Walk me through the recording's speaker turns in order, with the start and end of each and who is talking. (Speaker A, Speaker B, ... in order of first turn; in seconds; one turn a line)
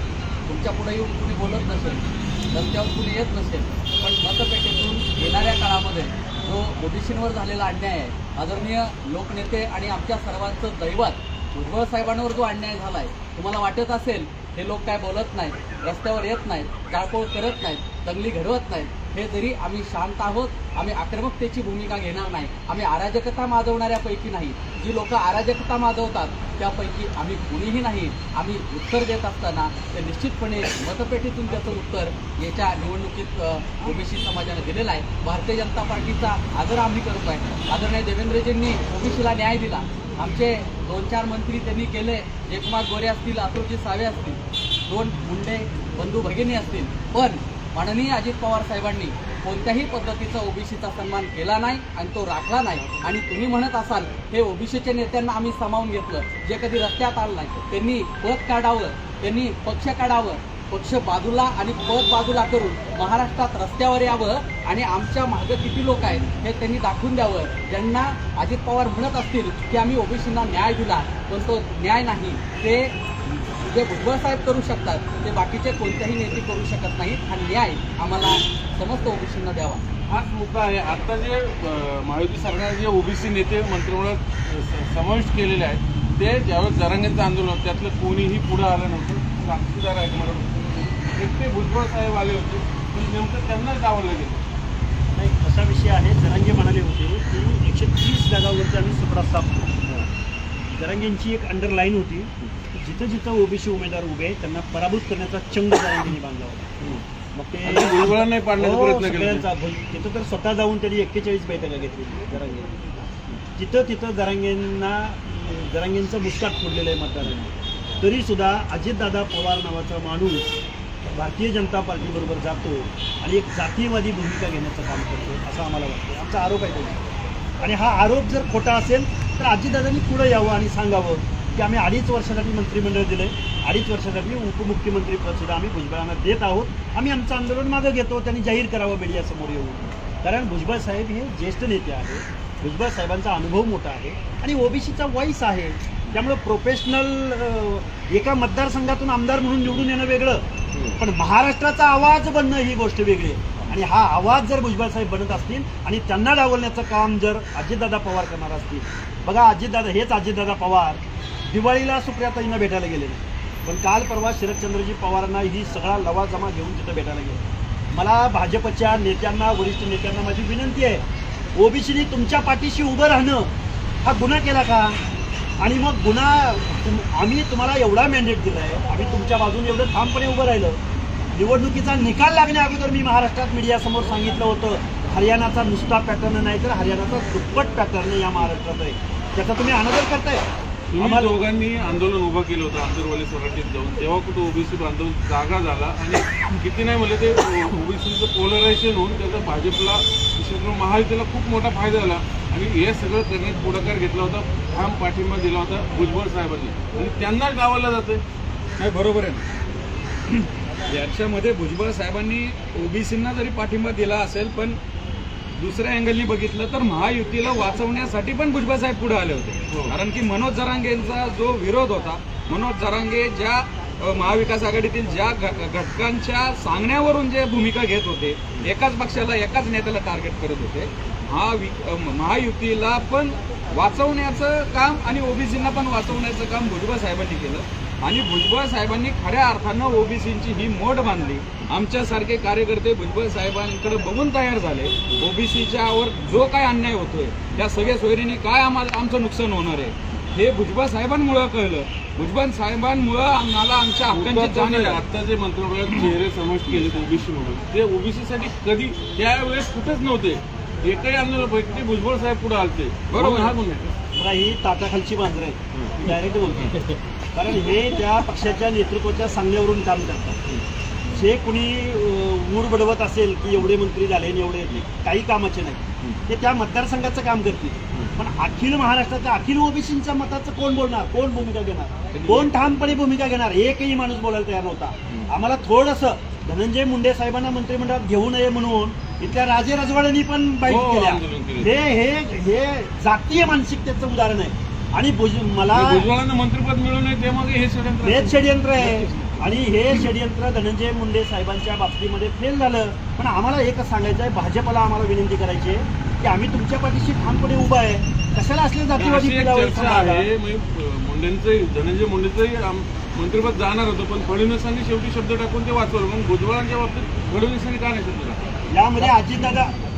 Speaker A: 0.5-79.8
Speaker B: 80.1-94.4
Speaker C: 95.1-99.8
Speaker C: 100.7-106.7
Speaker C: 107.3-112.8
Speaker B: 107.6-109.5
Speaker C: 113.5-127.0
Speaker C: 127.6-171.0
Speaker B: 150.7-151.0
Speaker C: 171.5-173.5
Speaker C: 174.0-175.0
Speaker C: 175.6-180.8
Speaker C: 181.3-190.4
Speaker B: 190.9-208.2
Speaker C: 191.0-191.4
Speaker D: 208.8-209.4
Speaker D: 210.3-214.8
Speaker D: 215.6-255.0
Speaker B: 219.7-220.0
Speaker B: 254.1-263.9
Speaker D: 263.1-263.6
Speaker C: 264.1-266.8
Speaker B: 265.7-266.9
Speaker C: 267.3-270.4
Speaker C: 271.1-296.1
Speaker B: 282.1-282.6
Speaker B: 290.6-291.8
Speaker B: 295.7-299.5
Speaker C: 298.0-310.3
Speaker B: 308.9-318.6
Speaker C: 318.7-319.7